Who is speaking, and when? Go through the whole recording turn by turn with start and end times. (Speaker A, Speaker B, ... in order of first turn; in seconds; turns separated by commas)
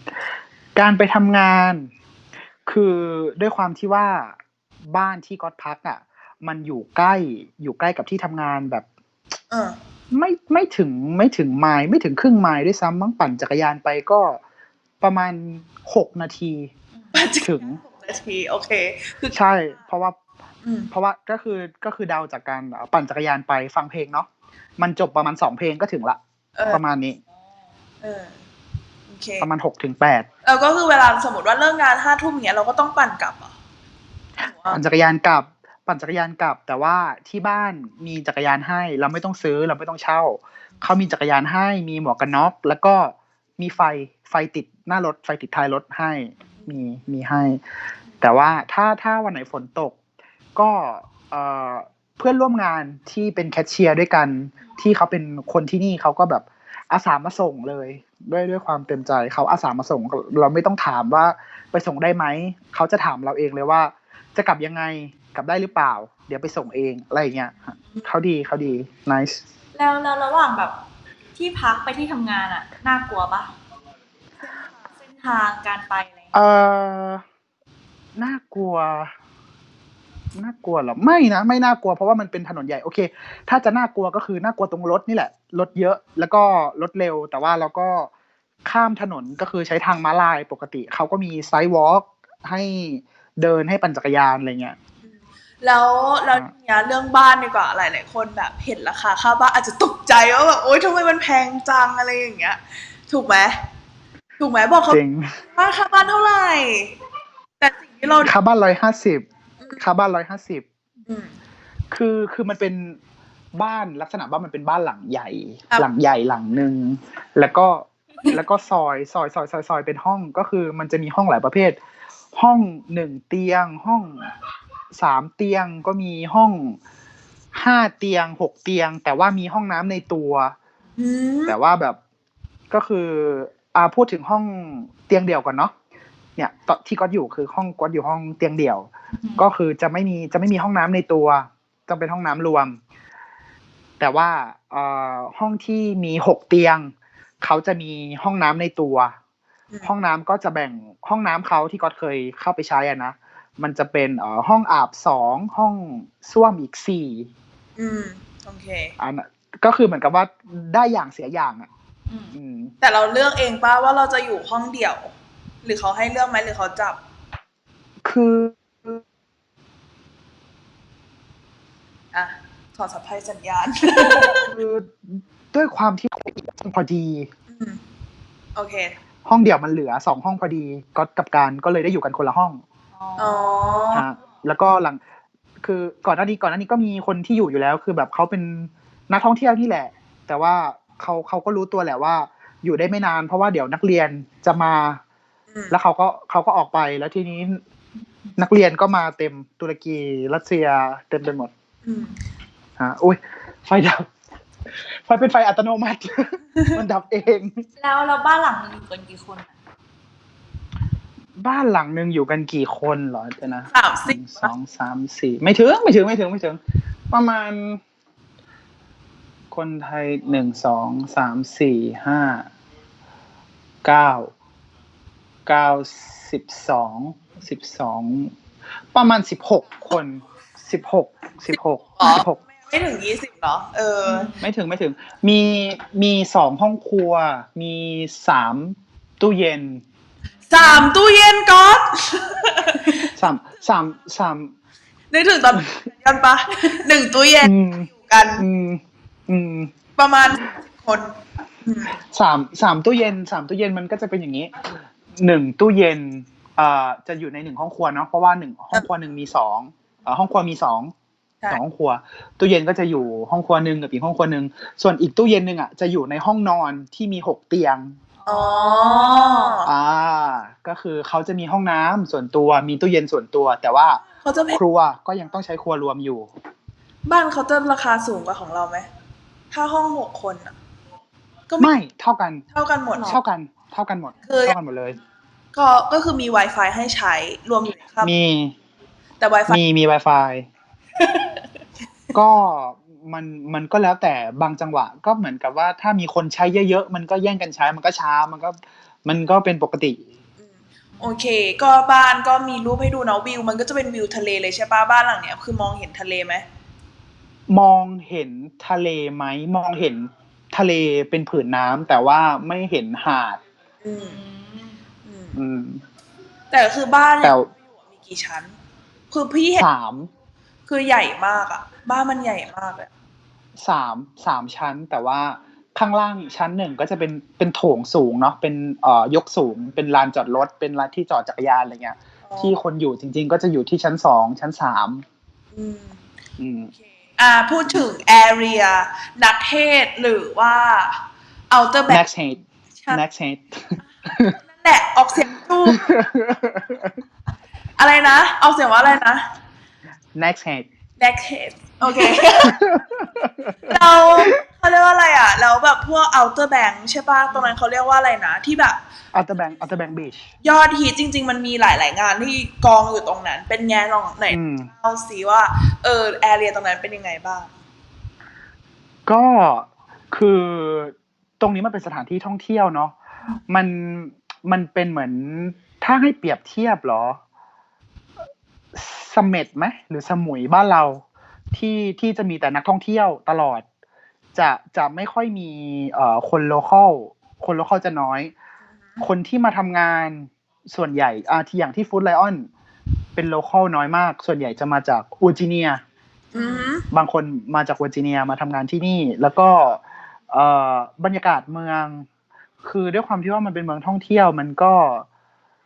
Speaker A: 0.8-1.9, Speaker A: 2.7-8.9, Speaker B: 9.5-9.8, Speaker A: 10.1-14.4, Speaker A: 15.0-16.7, Speaker B: 17.1-19.4, Speaker A: 17.4-17.8, Speaker A: 19.3-20.2, Speaker B: 20.6-20.9, Speaker A: 20.9-27.2, Speaker B: 26.6-26.8, Speaker B: 28.0-28.4, Speaker B: 29.1-29.5, Speaker A: 29.4-30.3, Speaker B: 30.4-33.5, Speaker B: 34.4-34.8, Speaker A: 34.7-47.6, Speaker A: 48.2-50.0, Speaker A: 50.6-69.4, Speaker C: 69.8-70.8, Speaker C: 71.4-73.5, Speaker C: 75.1-76.2, Speaker A: 76.3-77.2, Speaker A: 78.2-79.1, Speaker A: 80.3-88.1, Speaker A: 88.7-94.8, Speaker B: 95.0-103.6, Speaker B: 104.4-105.0, Speaker A: 104.9-105.4, Speaker B: 105.5-107.0, Speaker B: 107.6-108.3, Speaker A: 108.2-109.2, Speaker A: 109.8-110.7, Speaker B: 111.1-111.3, Speaker A: 111.9-113.0, Speaker A: 113.6-121.8, Speaker A: 122.3-124.3, Speaker A: 124.9-126.8, Speaker A: 127.5-130.6, Speaker B: 131.0-131.6, Speaker A: 131.5-132.0, Speaker A: 132.7-135.7, Speaker A: 136.4-138.9, Speaker C: 139.2-139.5, Speaker A: 139.4-142.8, Speaker A: 144.0-149.2, Speaker A: 149.8-157.3, Speaker B: 157.8-158.9, Speaker A: 159.0-161.7, Speaker C: 162.1-162.3, Speaker A: 162.3-162.7, Speaker B: 162.8-165.1, Speaker B: 165.6-167.0, Speaker A: 168.1-169.0, Speaker B: 172.1-174.5, Speaker A: 174.1-177.3, Speaker B: 177.5-177.8, Speaker B: 178.6-178.9, Speaker A: 179.3-182.6, Speaker C: 182.9-184.0, Speaker B: 183.2-184.0, Speaker A: 183.9-185.0, Speaker A: 185.6-195.0, Speaker A: 195.7-197.6, Speaker A: 198.4-201.5, Speaker B: 201.8-202.2, Speaker A: 202.8-204.1, Speaker A: 205.1-207.6, Speaker C: 207.8-209.5, Speaker A: 211.4-216.6, Speaker B: 213.7-214.5, Speaker A: 217.1-217.8, Speaker A: 219.5-222.5, Speaker A: 223.8-224.3, Speaker A: 225.5-228.3, Speaker A: 228.9-232.4, Speaker B: 232.0-234.3, Speaker C: 234.1-234.4, Speaker A: 234.4-239.8, Speaker B: 240.5-243.1, Speaker C: 240.6-240.9, Speaker A: 243.2-244.5, Speaker B: 245.1-247.5, Speaker A: 247.4-249.7, Speaker B: 248.1-248.5, Speaker B: 250.0-251.9, Speaker A: 252.1-254.6, Speaker A: 255.2-260.9, Speaker A: 261.5-268.0, Speaker C: 268.2-269.6, Speaker B: 268.3-269.7, Speaker A: 269.7-276.3, Speaker B: 274.2-274.6, Speaker B: 277.1-278.9, Speaker B: 279.5-280.5, Speaker A: 281.6-282.4, Speaker B: 282.5-283.2, Speaker A: 283.0-285.0, Speaker B: 284.2-284.6, Speaker B: 285.5-288.1, Speaker A: 288.0-288.6, Speaker B: 289.2-289.6, Speaker A: 289.5-290.5, Speaker B: 291.0-291.4, Speaker A: 292.1-300.0, Speaker C: 300.9-301.2, Speaker B: 301.0-306.4, Speaker A: 307.5-313.4, Speaker B: 313.8-314.2, Speaker C: 314.1-314.8, Speaker B: 315.1-315.4, Speaker A: 315.4-315.8, Speaker B: 316.5-318.6, Speaker A: 317.2-317.5, Speaker B: 319.1-319.7, Speaker A: 319.6-320.1, Speaker B: 320.7-322.9, Speaker A: 323.6-335.0, Speaker B: 332.2-332.6, Speaker B: 335.5-336.0, Speaker A: 336.4-336.7, Speaker B: 337.2-342.0, Speaker A: 341.9-344.4, Speaker B: 344.5-345.9, Speaker A: 345.7-347.0, Speaker B: 347.8-349.2, Speaker A: 350.2-350.7, Speaker B: 351.0-352.6, Speaker A: 352.4-354.4, Speaker B: 353.6-358.8, Speaker A: 359.1-360.3, Speaker B: 360.4-367.5, Speaker A: 364.3-364.7, Speaker A: 369.1-372.9, Speaker A: 373.5-377.2, Speaker A: 378.7-383.6, Speaker A: 384.4-388.3, Speaker A: 389.0-392.5, Speaker A: 393.1-395.8, Speaker B: 396.3-396.9, Speaker A: 396.9-402.1, Speaker A: 402.6-405.1